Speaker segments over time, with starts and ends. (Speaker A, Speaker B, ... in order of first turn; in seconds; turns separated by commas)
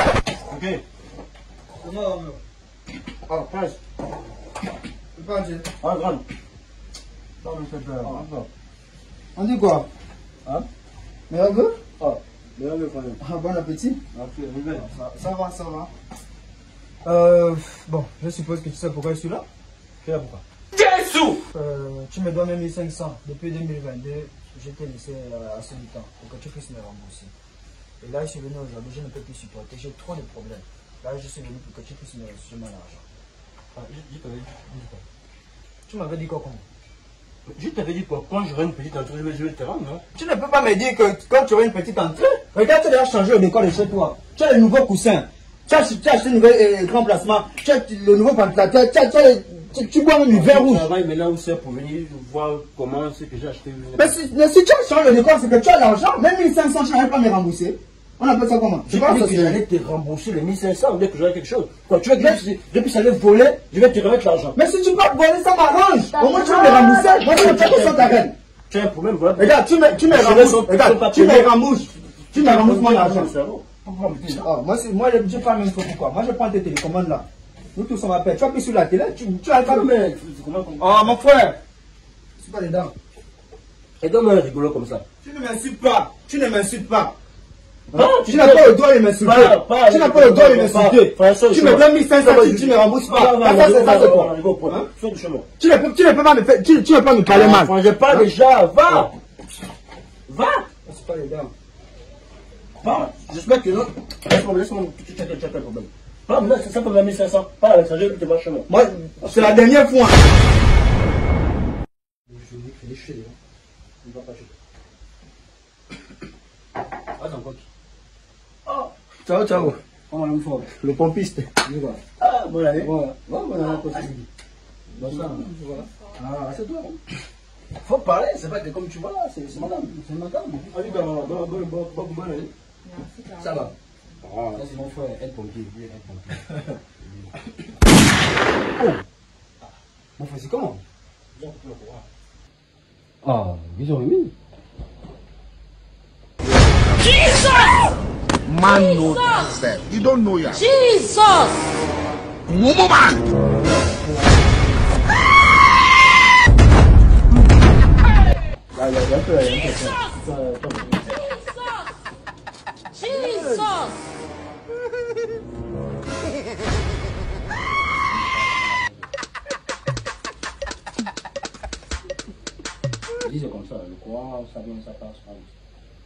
Speaker A: 0.5-0.8, Speaker B: 1.8-2.4, Speaker A: 3.3-3.8, Speaker B: 5.1-5.7, Speaker A: 5.8-6.2, Speaker B: 7.4-8.2, Speaker A: 8.0-8.5, Speaker B: 9.3-9.9, Speaker B: 11.3-11.8, Speaker A: 12.0-13.2, Speaker B: 13.2-14.0, Speaker A: 14.1-14.8, Speaker B: 14.7-15.9, Speaker B: 17.0-19.4, Speaker A: 20.0-20.4, Speaker C: 20.7-21.4, Speaker B: 21.5-27.3, Speaker B: 28.0-33.0, Speaker A: 33.7-35.0, Speaker B: 35.9-36.6, Speaker A: 37.5-40.0, Speaker B: 40.1-50.9, Speaker A: 50.3-54.2, Speaker B: 54.0-59.6, Speaker A: 58.9-64.6, Speaker B: 64.5-68.3, Speaker D: 66.2-67.4, Speaker A: 67.2-69.6, Speaker B: 69.4-73.3, Speaker A: 70.1-71.5, Speaker A: 72.3-74.5, Speaker B: 74.3-79.9, Speaker A: 79.6-81.2, Speaker B: 80.8-81.6, Speaker B: 82.4-82.9, Speaker A: 84.0-85.0, Speaker B: 85.2-87.2, Speaker B: 87.9-94.9, Speaker A: 87.9-95.5, Speaker B: 95.6-98.3, Speaker A: 97.3-99.1, Speaker A: 100.3-100.7, Speaker B: 100.8-101.5, Speaker A: 102.8-109.6, Speaker B: 108.7-110.2, Speaker A: 112.3-113.3, Speaker A: 114.0-114.5, Speaker A: 117.2-117.6, Speaker A: 118.7-121.6, Speaker B: 119.2-119.8, Speaker B: 121.6-122.0, Speaker A: 122.2-124.2, Speaker B: 122.8-123.3, Speaker B: 125.0-125.5, Speaker A: 125.0-127.0, Speaker A: 127.8-132.5, Speaker B: 129.3-129.9, Speaker D: 132.9-133.5, Speaker B: 133.4-133.7, Speaker A: 134.2-137.3, Speaker B: 134.5-134.8, Speaker A: 138.8-139.0, Speaker B: 140.2-140.8, Speaker A: 141.3-142.1, Speaker A: 143.2-144.3, Speaker D: 148.4-150.7, Speaker C: 150.6-151.5, Speaker D: 152.5-153.2, Speaker A: 158.7-161.3, Speaker C: 163.0-163.9, Speaker A: 163.0-163.7, Speaker A: 168.2-169.0, Speaker A: 173.2-175.5